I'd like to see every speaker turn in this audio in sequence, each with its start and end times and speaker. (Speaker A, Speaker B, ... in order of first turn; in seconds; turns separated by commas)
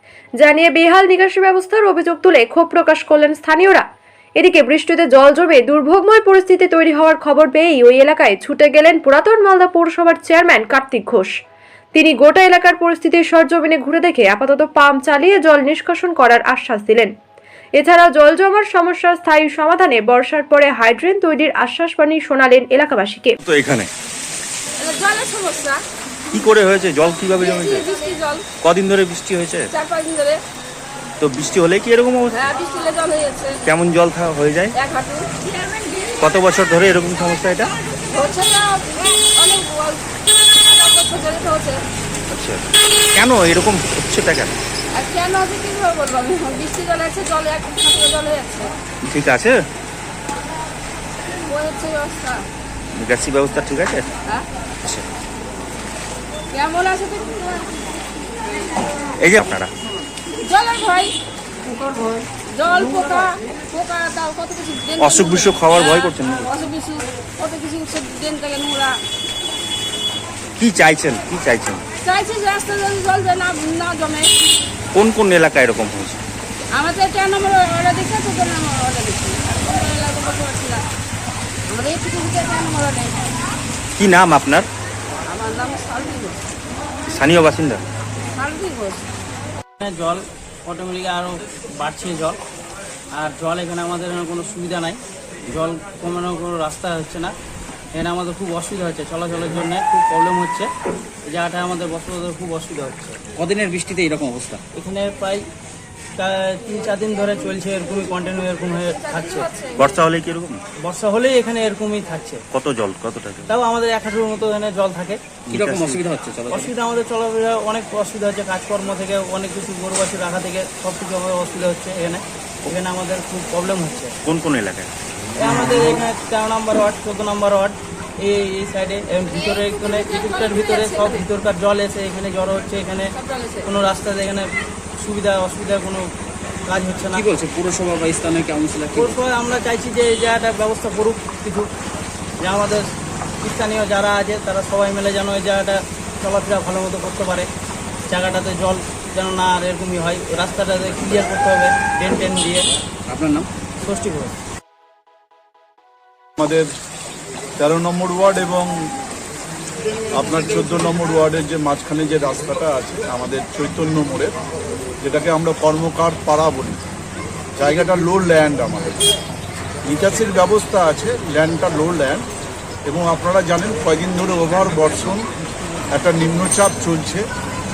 Speaker A: 0.4-3.8, Speaker A: 4.4-11.3, Speaker A: 11.9-17.1, Speaker A: 17.8-23.4, Speaker B: 23.4-23.9, Speaker C: 24.8-25.8, Speaker B: 26.3-27.9, Speaker C: 27.4-28.4, Speaker B: 28.6-29.7, Speaker C: 29.7-30.4, Speaker B: 31.2-32.5, Speaker C: 32.3-33.6, Speaker B: 33.6-34.7, Speaker C: 34.7-36.2, Speaker B: 36.2-37.7, Speaker C: 38.1-41.8, Speaker B: 42.3-44.5, Speaker C: 44.9-48.7, Speaker B: 49.0-49.6, Speaker C: 51.5-52.5, Speaker B: 52.9-54.1, Speaker C: 56.5-57.9, Speaker B: 59.2-59.7, Speaker C: 60.4-61.1, Speaker C: 62.5-69.0, Speaker B: 65.0-66.5, Speaker B: 70.6-71.8, Speaker C: 72.0-74.3, Speaker B: 74.9-76.2, Speaker C: 76.7-80.8, Speaker C: 81.7-83.3, Speaker B: 84.0-84.7, Speaker C: 85.3-86.4, Speaker B: 87.1-87.8, Speaker C: 88.3-89.1, Speaker D: 89.8-92.4, Speaker D: 93.1-97.3, Speaker D: 97.9-100.7, Speaker D: 101.3-103.2, Speaker E: 103.4-104.6, Speaker D: 104.7-105.4, Speaker D: 106.2-109.5, Speaker C: 108.9-110.0, Speaker B: 109.8-110.6, Speaker D: 110.8-112.4, Speaker B: 112.5-113.5, Speaker D: 113.5-115.4, Speaker B: 115.5-116.0, Speaker E: 115.5-116.7, Speaker D: 116.5-124.2, Speaker B: 124.2-124.9, Speaker D: 125.4-133.1, Speaker C: 129.3-131.3, Speaker C: 133.1-133.7, Speaker D: 133.6-134.5, Speaker D: 135.0-136.1, Speaker D: 136.7-137.3, Speaker E: 137.1-139.2, Speaker D: 138.9-141.7, Speaker D: 142.4-142.9, Speaker D: 143.4-147.5, Speaker D: 148.1-152.7, Speaker E: 153.1-153.5, Speaker D: 153.8-154.3, Speaker F: 156.4-156.7, Speaker F: 157.6-158.8, Speaker F: 160.1-164.3, Speaker F: 165.0-166.8, Speaker F: 167.6-169.1, Speaker F: 169.8-172.2, Speaker F: 172.9-175.2, Speaker F: 175.9-177.2